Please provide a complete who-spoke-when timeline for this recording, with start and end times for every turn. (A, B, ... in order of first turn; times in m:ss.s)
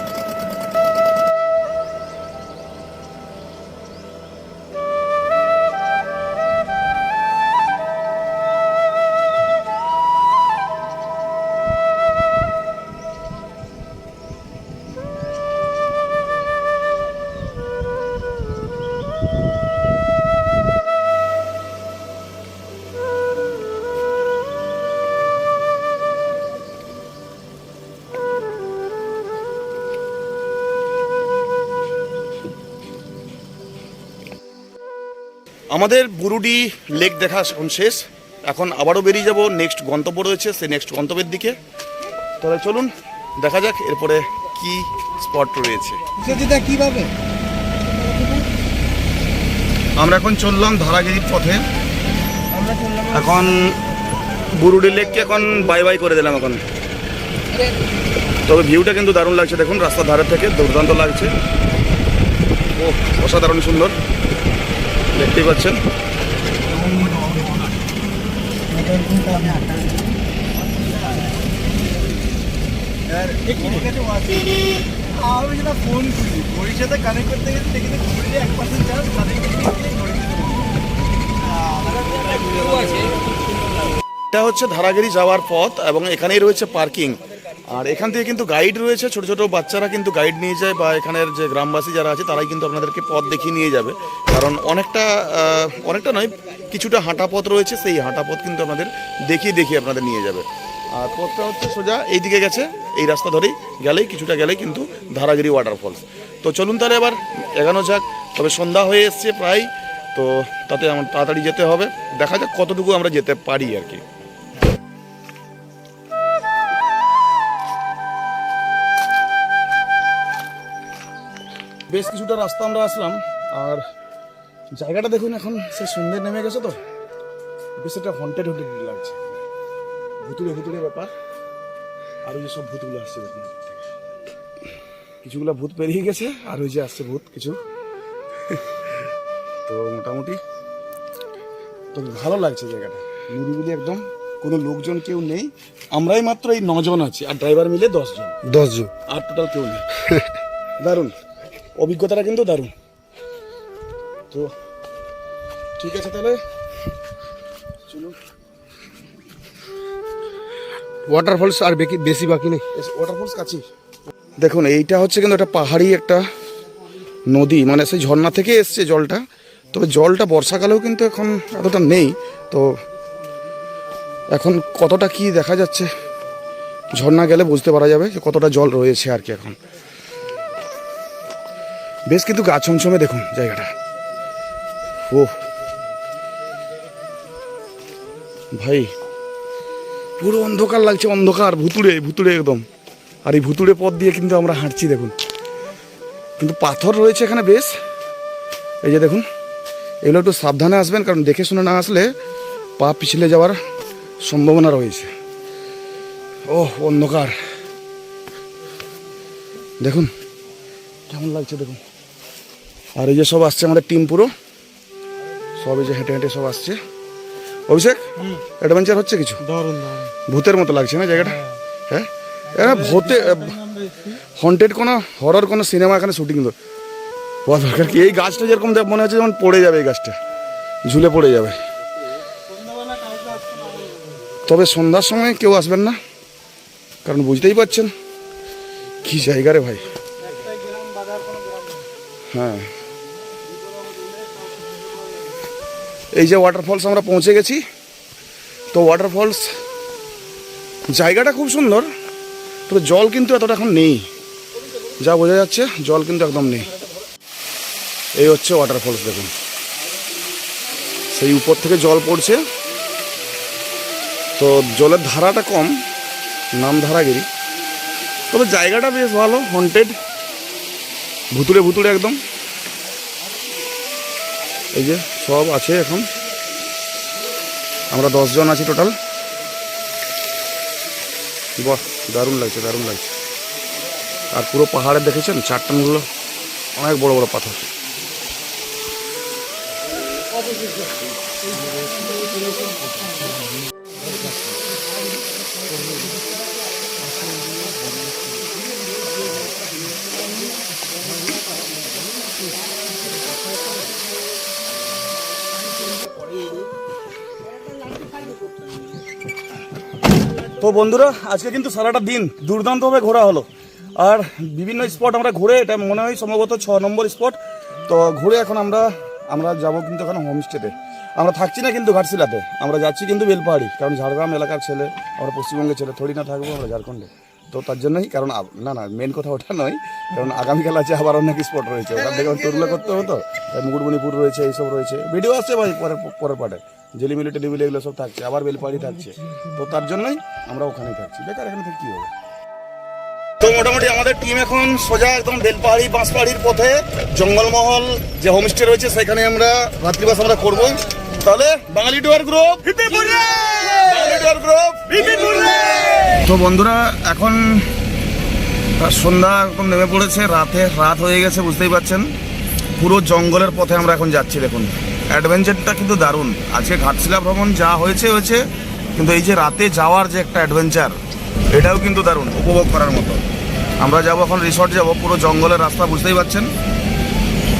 0:35.7-0:41.6 A
0:42.4-0:46.0 A
0:46.2-0:47.1 B
0:47.9-0:48.4 B
0:50.0-0:51.6 A
0:52.5-0:53.5 B
0:53.1-0:53.8 A
0:54.5-0:56.6 A
0:58.4-1:01.3 A
1:02.7-1:04.0 A
1:05.1-1:05.8 A
1:06.6-1:07.8 B
1:08.7-1:12.0 B
1:13.1-1:20.8 B
1:21.4-1:23.4 B
1:24.3-1:27.2 A
1:27.7-1:54.0 A
2:01.9-2:03.8 A
2:04.8-2:06.8 A
2:07.8-2:09.4 A
2:10.2-2:11.1 A
2:12.2-2:13.8 A
2:15.2-2:17.6 A
2:19.6-2:20.4 A
2:21.9-2:28.4 A
2:28.4-2:28.9 C
2:29.1-2:29.8 A
2:30.8-2:31.1 A
2:31.8-2:32.7 A
2:35.8-2:36.4 A
2:37.9-2:38.1 A
2:41.1-2:42.6 C
2:42.7-2:43.6 A
2:44.4-2:46.2 A
2:47.3-2:52.8 A
2:54.3-2:55.9 A
2:56.9-2:59.6 A
3:02.1-3:03.7 A
3:08.5-3:08.9 A
3:10.2-3:12.6 A
3:13.2-3:15.1 A
3:16.4-3:17.7 A
3:18.8-3:19.2 A
3:20.0-3:22.1 A
3:22.8-3:23.6 A
3:24.2-3:25.1 A
3:26.5-3:27.3 A
3:29.8-3:30.1 A
3:31.1-3:31.8 A
3:33.0-3:34.3 A
3:35.6-3:36.8 A
3:37.7-3:38.1 A
3:38.6-3:39.4 A
3:39.4-3:40.1 B
3:40.3-3:43.6 A
3:42.5-3:44.2 B
3:44.3-3:46.5 A
3:47.4-3:50.1 A
3:50.9-3:51.6 A
3:52.5-3:54.0 B
3:54.4-3:56.0 A
3:57.0-3:57.9 A
3:59.0-3:59.8 A
4:00.2-4:01.7 B
4:02.3-4:02.7 A
4:06.1-4:07.6 A
4:08.7-4:09.5 A
4:10.9-4:11.9 A
4:12.7-4:14.0 A
4:15.0-4:16.7 A
4:18.2-4:19.3 A
4:21.1-4:22.4 A
4:24.4-4:25.8 A
4:26.6-4:27.2 A
4:28.3-4:29.9 A
4:31.3-4:32.2 A
4:34.7-4:36.1 A
4:37.9-4:38.9 A
4:41.6-4:43.1 A
4:44.3-4:46.0 A
4:46.8-4:47.6 A
4:51.5-4:52.2 C
4:52.8-4:53.4 C
4:54.0-4:54.5 C
4:57.4-4:58.2 C
5:10.6-5:42.1 A
5:43.4-5:57.6 A
5:58.8-6:02.0 A
6:02.8-6:08.4 A
6:08.9-6:11.0 A
6:11.5-6:13.2 A
6:13.8-6:16.5 A